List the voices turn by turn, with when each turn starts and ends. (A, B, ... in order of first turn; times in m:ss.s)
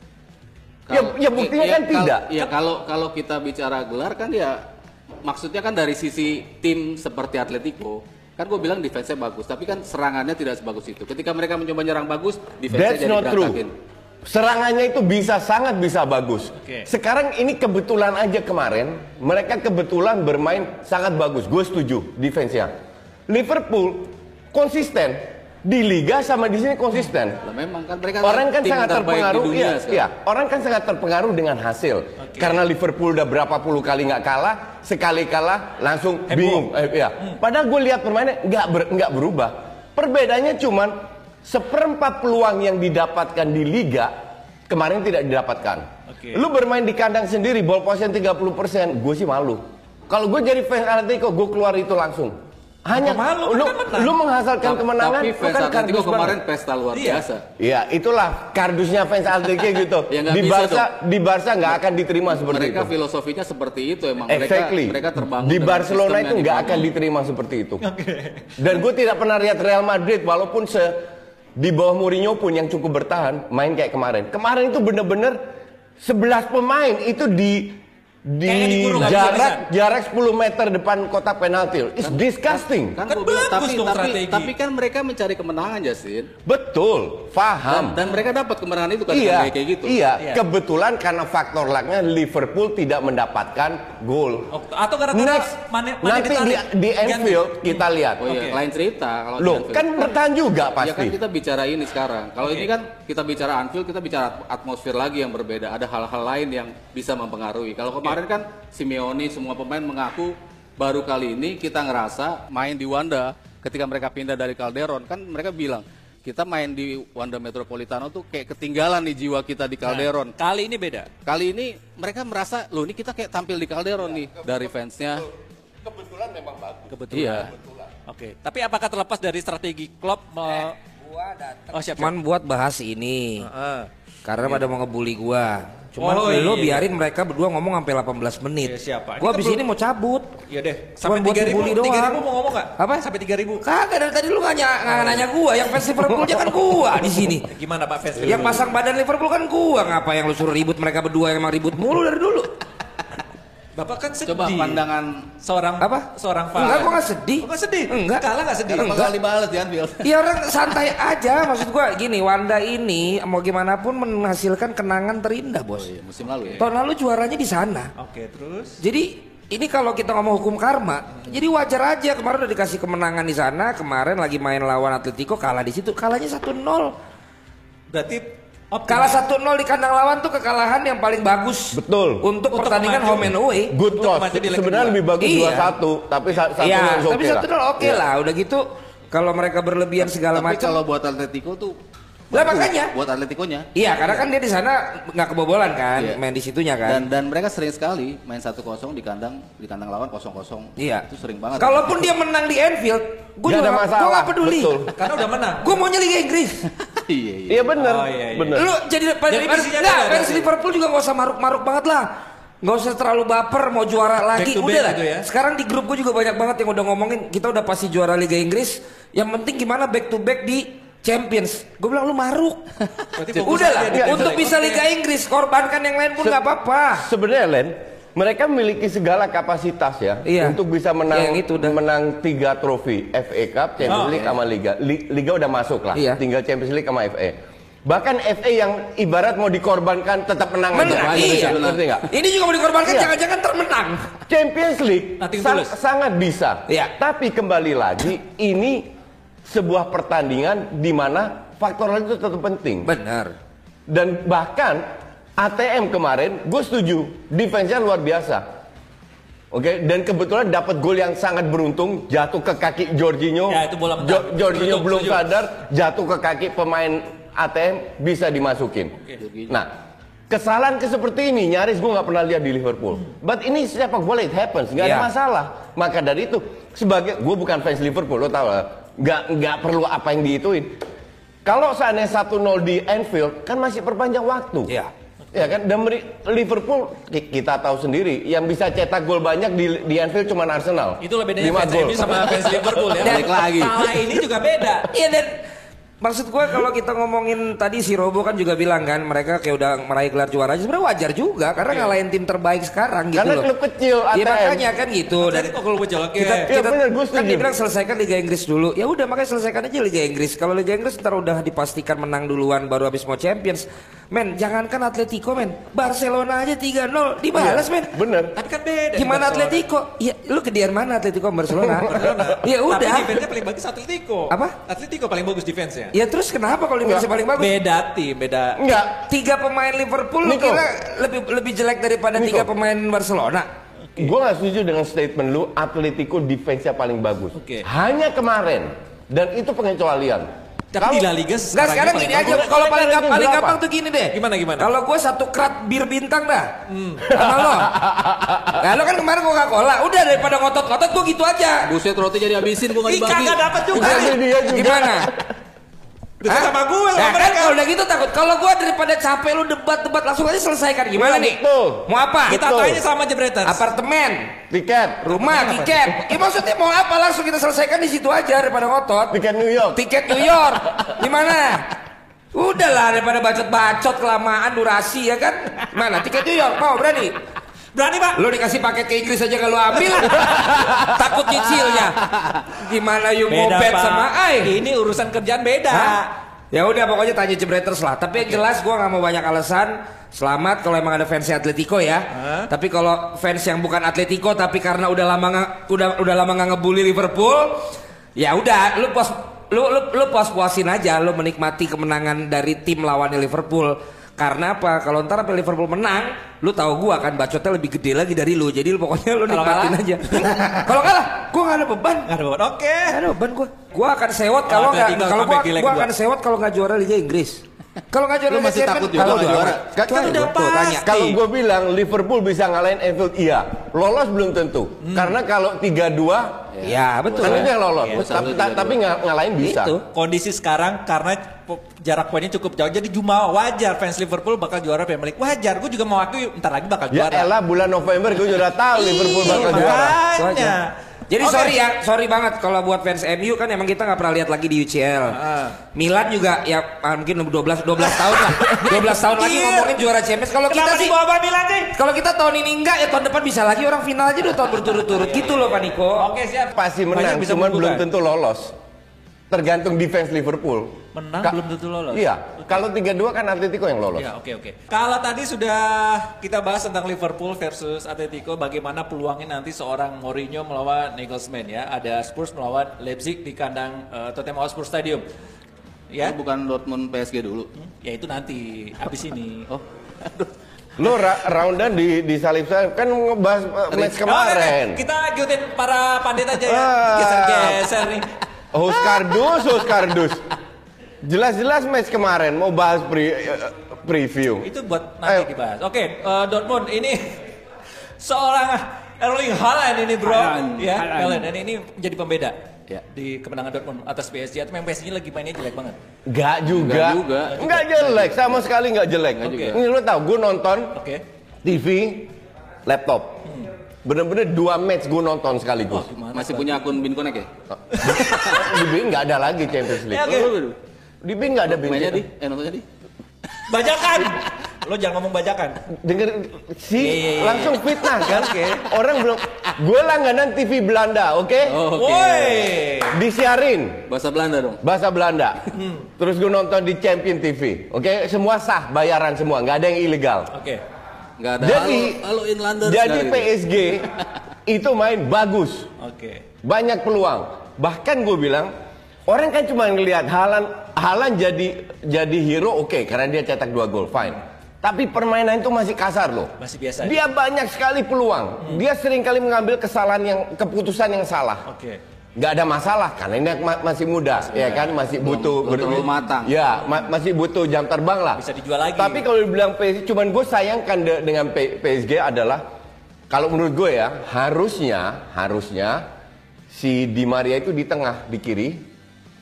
0:00.9-0:04.7 A
0:00.9-0:02.3 B
0:05.2-0:13.7 A
0:12.7-0:13.6 B
0:14.2-0:22.7 B
0:16.6-0:16.9 C
0:23.3-0:27.4 B
0:27.4-0:30.1 A
0:28.2-0:44.1 B
0:32.2-0:32.6 C
0:36.3-0:37.4 C
0:44.7-0:56.4 B
0:46.1-0:46.4 C
0:52.9-0:54.1 C
0:54.6-0:57.4 A
0:56.9-0:57.2 C
0:57.6-1:02.9 B
1:00.1-1:00.9 A
1:02.3-1:06.9 A
1:04.3-1:07.8 B
1:07.8-1:08.5 C
1:08.6-1:11.0 B
1:11.6-1:15.4 B
1:16.0-1:23.0 B
1:18.4-1:19.6 C
1:22.1-1:26.3 A
1:23.1-1:24.5 C
1:26.4-1:28.0 B
1:27.7-1:30.0 A
1:29.1-1:34.5 B
1:30.2-1:30.4 C
1:34.5-1:38.6 C
1:35.1-1:38.2 B
1:38.2-1:40.1 A
1:39.4-1:41.2 B
1:40.8-2:00.3 A
1:59.8-2:01.1 C
2:01.2-2:05.3 A
2:04.4-2:05.3 B
2:05.8-2:07.9 B
2:06.9-2:07.5 C
2:07.1-2:07.5 A
2:08.1-2:10.8 C
2:10.6-2:13.4 D
2:11.7-2:12.1 C
2:13.4-2:13.9 C
2:14.2-2:20.3 D
2:16.0-2:16.8 C
2:18.6-2:19.6 C
2:20.5-2:23.6 C
2:21.0-2:22.2 D
2:22.8-2:23.1 D
2:23.6-2:27.5 D
2:24.9-2:25.2 C
2:27.4-2:28.7 C
2:28.2-2:32.5 D
2:33.8-2:34.8 C
2:34.2-2:35.3 A
2:35.4-2:39.0 C
2:35.8-2:38.2 D
2:38.7-2:40.2 A
2:38.8-2:39.1 D
2:40.0-2:45.9 D
2:45.7-2:46.6 A
2:46.6-2:47.9 D
2:48.0-2:48.8 C
2:48.8-2:57.0 D
2:57.9-2:59.2 C
2:58.9-3:03.8 D
3:01.7-3:02.2 B
3:02.5-3:03.3 C
3:03.7-3:08.0 B
3:03.8-3:05.1 C
3:05.2-3:05.7 D
3:06.6-3:10.8 D
3:10.0-3:11.8 A
3:12.3-3:14.3 A
3:12.3-3:12.9 D
3:13.7-3:17.1 D
3:16.8-3:22.1 A
3:20.8-3:21.0 D
3:21.6-3:24.9 D
3:23.4-3:24.9 B
3:25.0-3:25.8 C
3:25.6-3:26.7 D
3:26.8-3:27.7 A
3:27.5-3:28.7 B
3:27.8-3:28.6 C
3:28.5-3:32.1 D
3:29.3-3:30.5 C
3:32.6-3:42.7 D
3:34.3-3:35.3 C
3:43.1-3:44.8 C
3:43.4-3:47.0 D
3:43.9-3:44.4 B
3:47.0-3:57.3 B
3:50.2-3:50.6 D
3:51.1-3:51.8 D
3:53.8-3:54.1 C
3:53.8-3:54.4 A
3:55.9-3:56.2 D
3:57.8-4:02.1 B
4:00.7-4:04.2 D
4:00.8-4:02.0 A
4:02.8-4:03.1 B
4:04.3-4:08.9 B
4:05.2-4:05.7 C
4:09.4-4:12.9 B
4:12.8-4:13.3 D
4:13.9-4:14.8 B
4:15.4-4:18.4 B
4:19.5-4:28.9 B
4:23.5-4:25.2 C
4:29.2-4:29.6 A
4:29.5-4:29.7 B
4:30.3-4:40.8 B
4:34.8-4:35.1 D
4:41.4-4:44.7 B
4:44.7-4:44.9 D
4:45.3-4:52.2 B
4:51.0-4:54.9 C
4:52.9-4:53.8 A
4:53.0-4:53.4 D
4:54.9-4:55.3 D
4:56.0-5:03.4 D
5:01.7-5:02.0 C
5:03.1-5:04.7 B
5:04.1-5:05.5 D
5:05.1-5:06.5 C
5:06.2-5:07.5 B
5:06.2-5:18.0 D
5:17.3-5:18.3 B
5:18.3-5:19.6 C
5:18.9-5:23.3 D
5:21.5-5:22.4 B
5:21.8-5:26.0 C
5:25.9-5:27.6 D
5:26.8-5:27.1 B
5:27.4-5:28.6 C
5:28.6-5:29.1 B
5:28.9-5:33.5 D
5:30.2-5:30.7 B
5:32.1-5:32.5 B
5:34.0-5:41.1 B
5:37.3-5:37.7 C
5:40.7-5:42.5 C
5:41.5-5:47.9 D
5:41.9-5:43.6 B
5:44.1-5:44.7 C
5:46.7-5:47.1 C
5:47.0-5:48.6 B
5:48.5-5:51.7 D
5:51.6-5:53.4 A
5:52.8-5:54.2 C
5:53.7-5:55.2 B
5:53.7-5:55.1 D
5:56.2-5:57.6 C
5:56.3-6:02.6 D
6:00.9-6:02.8 B
6:02.3-6:03.6 C
6:03.4-6:04.4 D
6:04.5-6:05.7 B
6:05.0-6:09.2 D
6:09.1-6:10.3 B
6:09.7-6:11.8 D
6:12.3-6:17.1 D
6:17.7-6:18.2 C
6:18.2-6:24.6 D
6:23.3-6:26.1 C
6:25.7-6:26.0 D
6:26.5-6:52.1 D
6:32.1-6:32.5 C
6:49.3-6:50.4 C
6:52.1-6:53.0 C
6:52.9-7:01.2 D
6:54.4-6:55.9 C
6:58.3-6:59.7 A
6:59.0-7:06.5 B
7:00.0-7:00.3 C
7:04.8-7:05.2 C
7:06.5-7:08.8 A
7:06.6-7:07.5 D
7:07.2-7:09.8 B
7:07.8-7:08.0 C
7:09.4-7:09.8 D
7:09.9-7:17.3 C
7:16.9-7:20.0 B
7:18.8-7:21.6 C
7:18.8-7:20.6 D
7:21.1-7:25.2 D
7:25.1-7:25.6 C
7:25.7-7:31.0 D
7:27.8-7:29.8 C
7:30.4-7:31.7 C
7:31.7-7:36.0 D
7:35.0-7:37.8 C
7:36.5-7:38.6 B
7:39.3-7:41.4 B
7:40.9-7:42.6 C
7:41.9-7:44.1 B
7:44.0-7:55.0 C
7:55.9-7:56.2 C
7:56.0-7:57.5 A
7:57.6-7:59.5 C
7:59.5-8:00.3 A
8:00.8-8:04.8 B
8:04.0-8:08.2 C
8:06.4-8:07.7 B
8:08.5-8:10.2 B
8:11.0-8:14.5 B
8:14.4-8:17.3 C
8:18.0-8:22.4 C
8:20.0-8:21.3 A
8:22.9-8:25.8 C
8:26.0-8:30.7 B
8:26.5-8:28.4 A
8:29.2-8:29.6 A
8:29.2-8:29.6 C
8:30.7-8:31.0 C
8:31.4-8:32.1 B
8:32.6-8:33.2 B
8:33.8-8:35.9 B
8:35.7-8:36.8 C
8:36.1-8:37.3 A
8:37.7-8:40.3 B
8:37.7-8:38.2 C
8:37.8-8:38.6 A
8:39.8-8:40.3 C
8:39.9-8:40.6 A
8:41.0-8:42.0 B
8:41.5-8:42.6 A
8:43.5-8:45.6 C
8:45.7-8:51.6 B
8:46.8-8:48.7 C
8:51.4-8:52.6 A
8:51.7-8:53.0 C
8:52.9-8:53.9 B
8:53.9-8:54.6 A
8:54.6-9:00.3 B
8:55.5-8:55.9 C
9:00.3-9:00.6 C
9:01.2-9:03.3 A
9:01.4-9:02.0 B
9:02.6-9:03.9 B
9:04.4-9:05.7 B
9:05.8-9:06.2 C
9:06.4-9:08.5 B
9:09.1-9:21.4 B
9:16.4-9:17.0 C
9:21.4-9:21.8 C
9:22.2-9:28.2 B
9:24.3-9:26.3 A
9:28.1-9:29.0 C
9:28.8-9:32.4 B
9:33.1-9:35.8 B
9:36.5-9:38.6 B